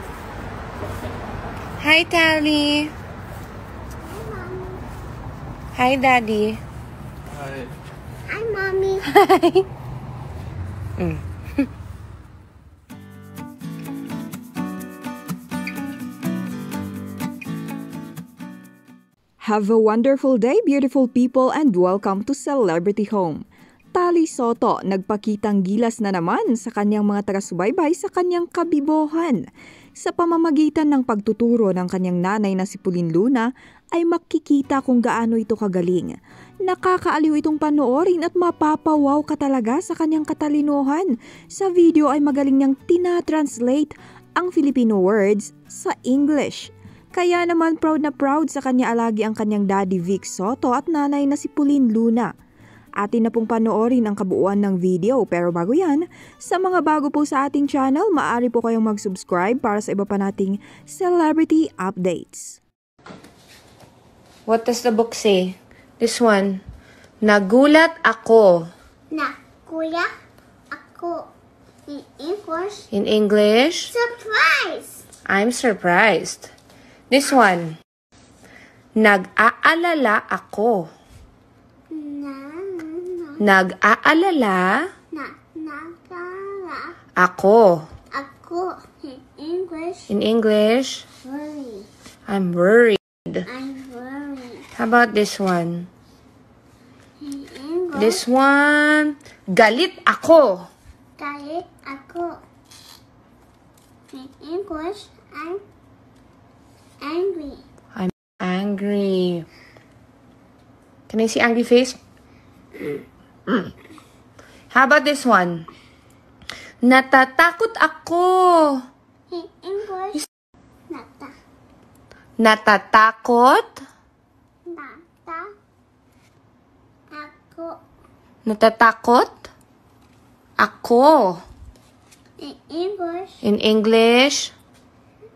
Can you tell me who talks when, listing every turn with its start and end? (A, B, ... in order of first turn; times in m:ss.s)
0:01.8-0:02.9 A
0:04.0-0:04.8 B
0:05.7-0:06.6 A
0:08.2-0:09.0 B
0:09.1-0:09.6 A
0:11.0-0:11.6 A
0:19.4-0:23.4 C
0:23.9-0:29.4 C
0:30.0-0:52.3 C
0:53.0-1:02.6 C
1:04.5-1:06.6 A
1:07.2-1:08.6 A
1:09.1-1:10.1 B
1:10.7-1:11.2 B
1:11.9-1:12.9 B
1:12.9-1:13.9 A
1:13.9-1:15.0 B
1:15.2-1:16.5 A
1:17.1-1:17.7 A
1:19.0-1:20.9 A
1:21.9-1:23.4 B
1:23.4-1:24.9 A
1:25.1-1:26.9 B
1:27.2-1:27.9 A
1:28.1-1:30.1 B
1:30.1-1:31.0 A
1:31.2-1:31.9 B
1:32.3-1:33.4 A
1:33.5-1:34.7 B
1:34.8-1:35.9 A
1:37.2-1:38.2 B
1:37.9-1:40.7 A
1:41.2-1:42.4 B
1:44.1-1:45.6 B
1:47.0-1:47.6 B
1:47.9-1:49.4 A
1:51.1-1:52.0 A
1:54.7-1:55.7 A
1:56.8-1:58.8 A
1:59.3-2:00.2 B
2:00.9-2:01.3 B
2:02.4-2:03.8 A
2:04.7-2:05.5 B
2:07.1-2:07.8 B
2:08.4-2:09.4 A
2:10.6-2:11.4 A
2:12.4-2:13.4 B
2:13.4-2:14.5 A